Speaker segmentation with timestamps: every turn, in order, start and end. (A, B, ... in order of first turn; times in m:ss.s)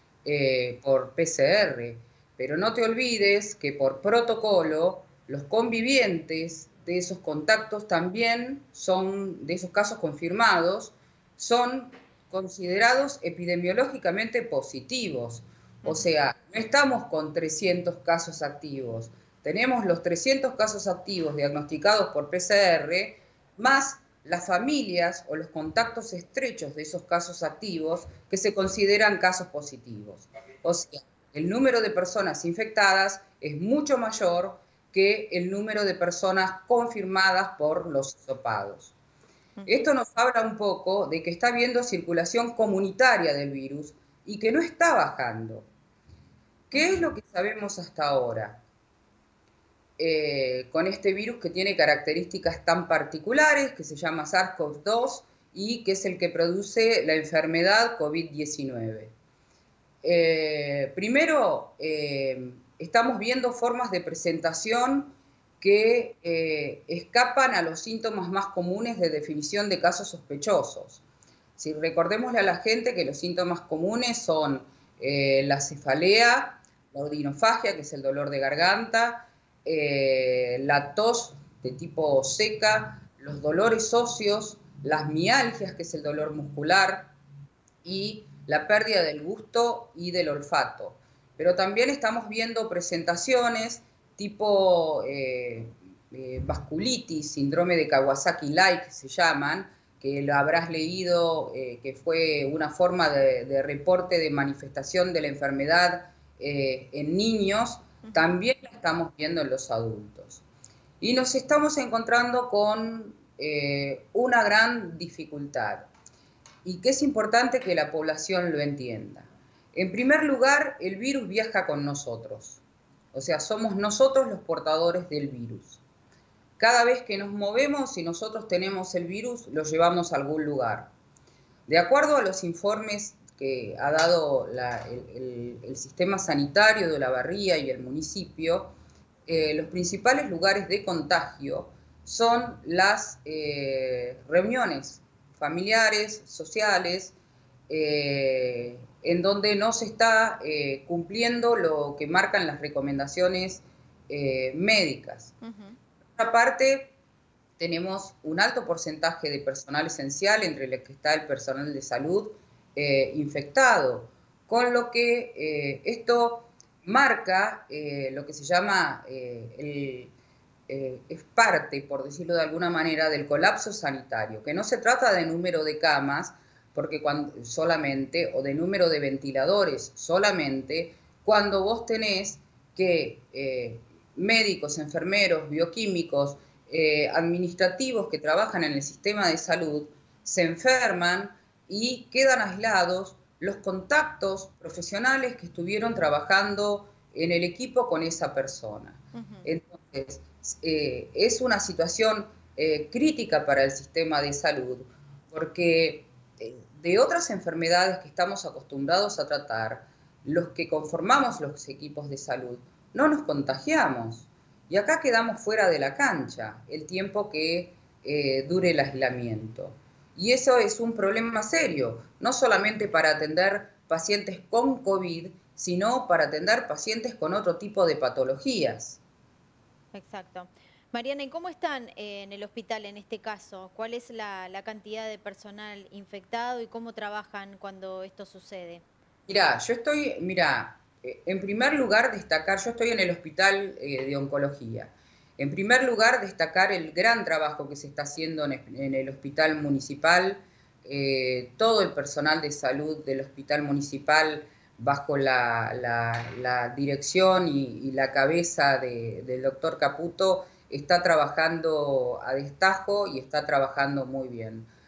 0:00.2-0:38.9 A
0:15.8-0:16.1 B
0:39.6-0:39.9 B
0:39.6-0:45.7 A
0:46.7-0:48.6 A
0:46.7-0:47.1 B
0:50.0-0:59.1 A
1:00.0-1:11.0 A
1:11.6-1:27.1 A
1:27.8-1:50.4 A
1:48.0-1:48.4 B
1:51.0-1:55.9 A
1:56.6-2:02.6 A
2:03.1-2:05.8 A
2:06.6-2:10.9 A
2:11.7-2:18.7 A
2:19.3-2:27.1 A
2:27.7-2:35.3 A
2:35.4-2:35.8 B
2:36.1-2:36.9 A
2:37.6-2:50.1 A
2:50.7-3:49.0 A
3:19.1-3:19.5 B
3:49.9-3:58.8 B
3:59.3-4:24.7 A